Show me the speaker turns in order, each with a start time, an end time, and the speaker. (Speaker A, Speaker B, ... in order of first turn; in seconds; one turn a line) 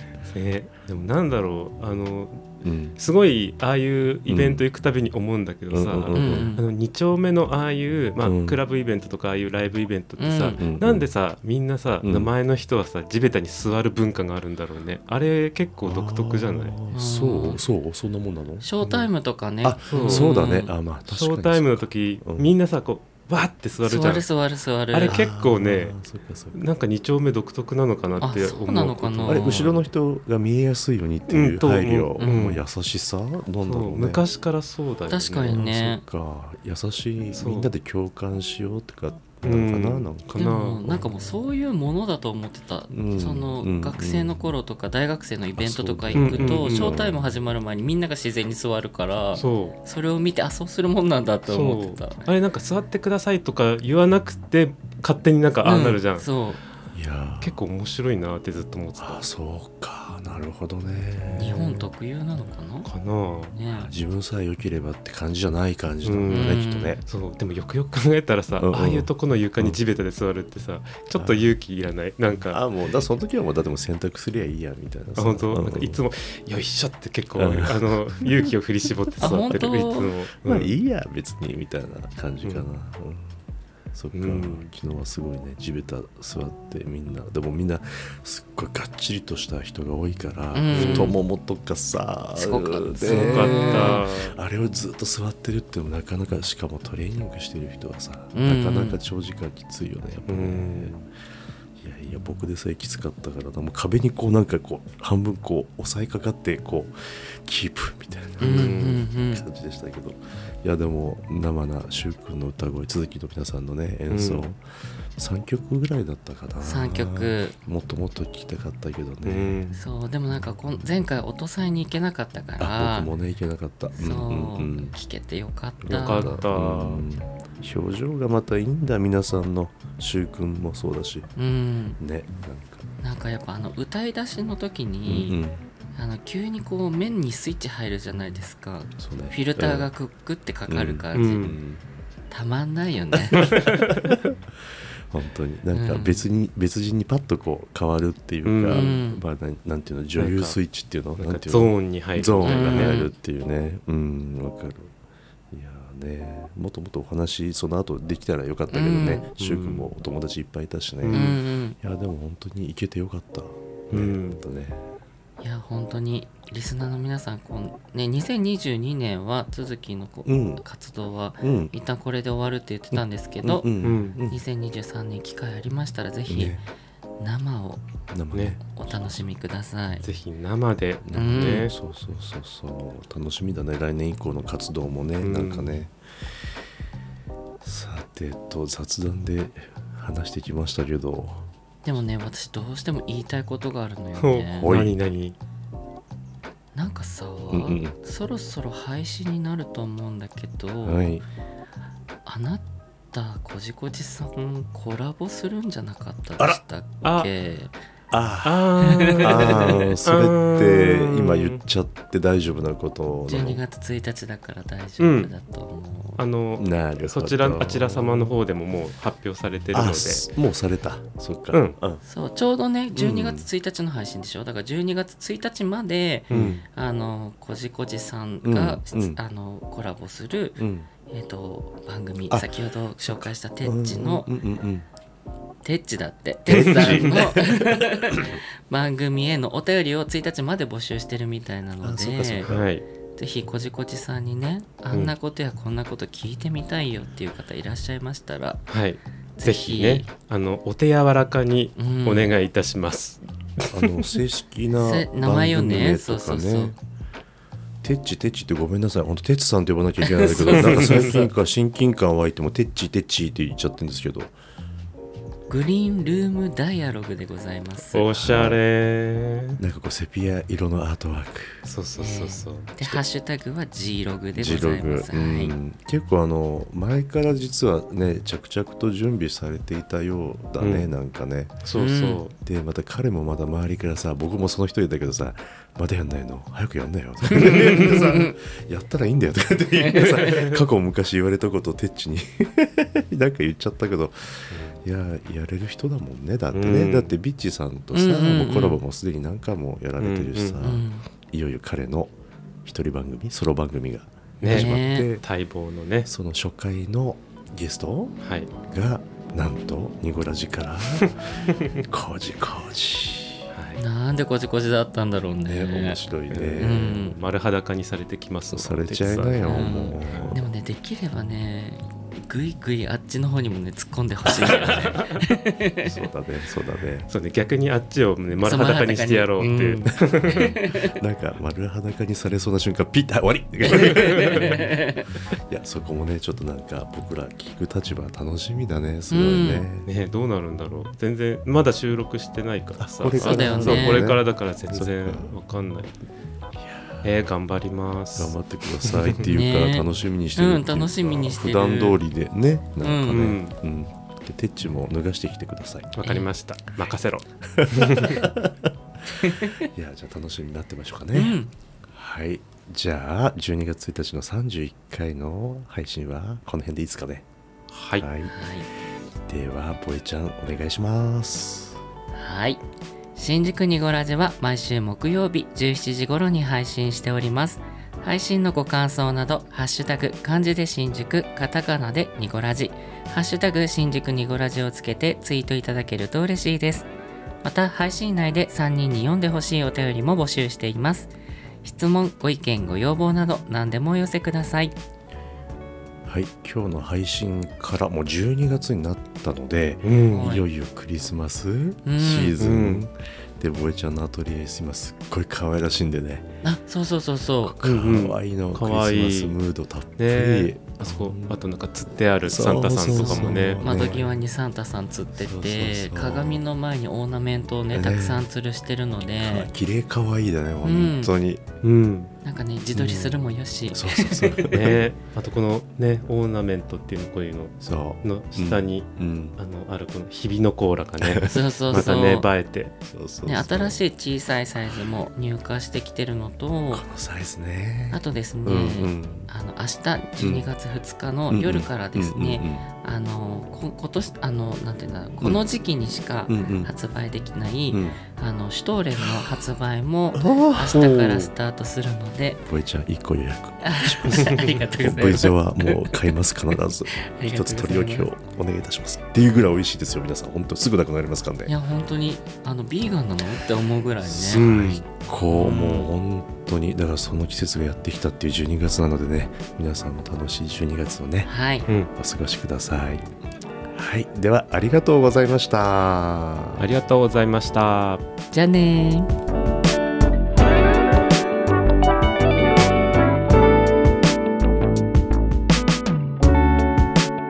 Speaker A: 0.3-16.8
Speaker B: 2.6-3.0
Speaker B: 4.3-4.6
Speaker B: 5.7-6.5
Speaker C: 6.1-6.6
Speaker B: 8.2-8.6
Speaker C: 10.2-10.6
Speaker B: 10.6-11.1
Speaker B: 12.0-12.3
Speaker B: 15.8-19.0
Speaker C: 16.9-17.6
Speaker C: 18.6-20.7
Speaker B: 19.6-22.5
Speaker A: 19.9-20.4
Speaker A: 21.1-24.3
Speaker C: 23.8-25.2
Speaker A: 24.9-26.0
Speaker B: 25.1-26.6
Speaker A: 26.5-29.8
Speaker C: 28.2-29.8
Speaker B: 29.2-34.2
Speaker A: 31.3-32.6
Speaker C: 32.2-32.5
Speaker A: 33.6-35.6
Speaker C: 35.1-36.0
Speaker B: 35.5-41.0
Speaker A: 37.3-37.7
Speaker A: 39.4-40.8
Speaker C: 40.3-52.2
Speaker B: 42.9-44.4
Speaker B: 45.5-47.2
Speaker A: 46.1-47.0
Speaker A: 49.3-49.8
Speaker A: 51.5-56.3
Speaker C: 55.6-56.6
Speaker B: 56.9-57.6
Speaker A: 57.4-59.2
Speaker B: 59.0-61.6
Speaker A: 61.3-61.9
Speaker C: 61.4-62.9
Speaker A: 62.8-63.5
Speaker C: 63.5-63.9
Speaker B: 63.7-67.0
Speaker A: 66.0-72.6
Speaker C: 66.3-67.0
Speaker B: 68.6-69.8
Speaker B: 71.1-71.5
Speaker B: 72.5-76.0
Speaker A: 75.2-80.7
Speaker B: 77.3-78.5
Speaker C: 79.2-80.1
Speaker B: 80.4-83.4
Speaker B: 83.9-100.9
Speaker A: 84.1-84.7
Speaker C: 90.5-91.2
Speaker A: 90.7-91.1
Speaker C: 92.4-94.0
Speaker A: 93.0-94.3
Speaker C: 98.3-99.0
Speaker A: 100.3-101.0
Speaker B: 101.8-114.6
Speaker C: 108.4-109.4
Speaker A: 108.4-109.0
Speaker A: 114.1-114.5
Speaker B: 115.2-119.6
Speaker C: 116.6-117.5
Speaker A: 119.2-119.8
Speaker C: 119.7-123.1
Speaker B: 122.6-124.9
Speaker C: 123.9-126.4
Speaker B: 125.8-131.3
Speaker A: 125.9-127.0
Speaker C: 131.4-132.0
Speaker B: 132.0-132.8
Speaker C: 133.0-135.4
Speaker B: 135.1-135.6
Speaker C: 135.9-141.5
Speaker B: 139.0-139.9
Speaker B: 140.7-141.8
Speaker A: 141.1-141.6
Speaker C: 142.3-143.5
Speaker B: 143.2-144.4
Speaker A: 143.3-144.0
Speaker B: 145.1-154.9
Speaker C: 145.7-146.2
Speaker A: 148.4-149.0
Speaker C: 148.7-149.2
Speaker A: 150.2-150.6
Speaker A: 151.2-153.0
Speaker C: 152.4-153.1
Speaker B: 155.5-164.8
Speaker C: 158.7-159.3
Speaker A: 159.4-159.9
Speaker A: 161.0-161.4
Speaker C: 161.1-161.8
Speaker A: 163.9-164.4
Speaker C: 165.4-173.7
Speaker B: 170.2-170.6
Speaker B: 171.4-171.7
Speaker B: 172.9-174.4
Speaker A: 173.8-174.2
Speaker C: 174.2-176.6
Speaker B: 176.3-176.6
Speaker C: 177.2-177.8
Speaker B: 178.1-179.2
Speaker C: 178.7-180.0
Speaker A: 180.0-181.7
Speaker B: 181.0-185.9
Speaker C: 181.1-181.7
Speaker A: 185.2-185.7
Speaker B: 187.6-191.4
Speaker C: 191.8-194.7
Speaker A: 194.2-195.4
Speaker B: 194.6-194.9
Speaker C: 196.7-201.1
Speaker B: 197.5-197.9
Speaker B: 200.8-201.2
Speaker C: 202.2-207.7
Speaker A: 207.0-207.3
Speaker B: 208.1-213.6
Speaker A: 208.4-211.6
Speaker C: 208.8-209.8
Speaker C: 213.3-216.2
Speaker A: 215.0-215.3
Speaker A: 216.2-220.3
Speaker B: 216.6-218.3
Speaker B: 219.7-222.0
Speaker A: 221.5-221.8
Speaker C: 222.0-234.3
Speaker B: 222.9-223.5
Speaker B: 226.3-226.6
Speaker A: 226.3-226.6
Speaker B: 228.4-229.2
Speaker B: 230.6-230.9
Speaker B: 232.3-234.9
Speaker C: 235.6-242.5
Speaker B: 236.5-238.4
Speaker A: 236.5-237.2
Speaker B: 241.8-242.7
Speaker A: 242.5-242.8
Speaker C: 243.1-248.6
Speaker A: 248.7-254.2
Speaker C: 249.4-250.1
Speaker C: 251.8-252.3
Speaker B: 253.7-256.8
Speaker C: 254.8-256.7
Speaker B: 257.8-264.3
Speaker C: 260.0-261.3
Speaker A: 260.4-261.3
Speaker C: 265.5-268.1
Speaker A: 267.9-269.6
Speaker B: 268.1-268.6
Speaker B: 269.6-271.7
Speaker A: 271.6-273.0
Speaker C: 272.0-275.5
Speaker B: 274.3-281.7
Speaker A: 280.6-280.9
Speaker A: 281.6-282.4
Speaker C: 281.7-282.2
Speaker B: 282.4-302.1
Speaker C: 287.3-288.3
Speaker A: 287.4-288.0
Speaker A: 290.0-290.6
Speaker A: 296.5-297.1
Speaker C: 297.9-298.8
Speaker A: 300.0-300.6
Speaker C: 300.6-301.1
Speaker B: 302.6-305.2
Speaker A: 304.4-306.1
Speaker C: 304.5-305.1
Speaker B: 306.1-313.5
Speaker A: 308.2-308.5
Speaker A: 313.5-313.8
Speaker C: 313.8-316.0
Speaker B: 315.4-317.0
Speaker A: 316.3-320.3
Speaker C: 316.6-317.2
Speaker B: 318.5-320.5
Speaker C: 319.4-325.9
Speaker A: 324.4-325.2
Speaker B: 325.8-327.1
Speaker A: 327.1-330.5
Speaker C: 328.4-330.9
Speaker B: 330.2-334.7
Speaker C: 333.7-335.1
Speaker A: 333.9-334.6
Speaker B: 335.3-339.9
Speaker C: 339.1-339.6
Speaker A: 339.8-345.9
Speaker B: 342.8-345.3
Speaker C: 343.2-344.1
Speaker B: 346.6-347.1
Speaker A: 347.0-349.2
Speaker B: 348.1-355.9
Speaker C: 349.2-352.0
Speaker C: 352.8-353.3
Speaker A: 353.1-353.6
Speaker A: 355.9-358.2
Speaker C: 356.0-356.3
Speaker B: 357.4-361.4
Speaker C: 359.1-359.6
Speaker C: 361.1-361.5
Speaker B: 361.9-367.2
Speaker A: 367.7-368.1
Speaker B: 368.0-368.3
Speaker C: 368.3-368.7
Speaker B: 369.3-371.8
Speaker C: 372.1-372.6
Speaker C: 373.1-386.9
Speaker C: 387.4-394.8
Speaker B: 396.0-406.3
Speaker A: 399.8-400.3
Speaker C: 400.1-400.4
Speaker C: 401.8-402.4
Speaker A: 402.4-402.9
Speaker C: 406.4-407.6
Speaker B: 407.4-411.4
Speaker A: 407.6-409.3
Speaker A: 410.0-413.6
Speaker B: 412.2-414.2
Speaker C: 412.9-419.5
Speaker B: 415.1-416.4
Speaker B: 417.7-418.3
Speaker B: 419.2-421.4
Speaker C: 420.6-421.1
Speaker A: 421.6-422.1
Speaker C: 422.2-424.8
Speaker B: 422.8-423.1
Speaker B: 423.7-424.8
Speaker A: 424.5-432.7
Speaker B: 427.6-429.4
Speaker B: 431.0-431.9
Speaker C: 431.3-432.3
Speaker B: 432.8-433.8
Speaker C: 433.2-436.9
Speaker B: 436.7-439.3
Speaker C: 437.9-452.4
Speaker B: 440.2-440.5
Speaker B: 441.3-442.7
Speaker B: 446.3-446.7
Speaker B: 447.7-448.0
Speaker B: 449.0-449.3
Speaker B: 450.1-450.8
Speaker A: 450.7-451.3
Speaker B: 452.4-461.5
Speaker C: 453.6-456.1
Speaker C: 456.9-458.1
Speaker C: 461.4-465.9
Speaker B: 464.0-471.3
Speaker A: 464.3-464.8
Speaker C: 471.2-471.7
Speaker B: 471.9-473.1
Speaker B: 473.7-476.6
Speaker A: 476.6-478.0
Speaker C: 478.3-479.1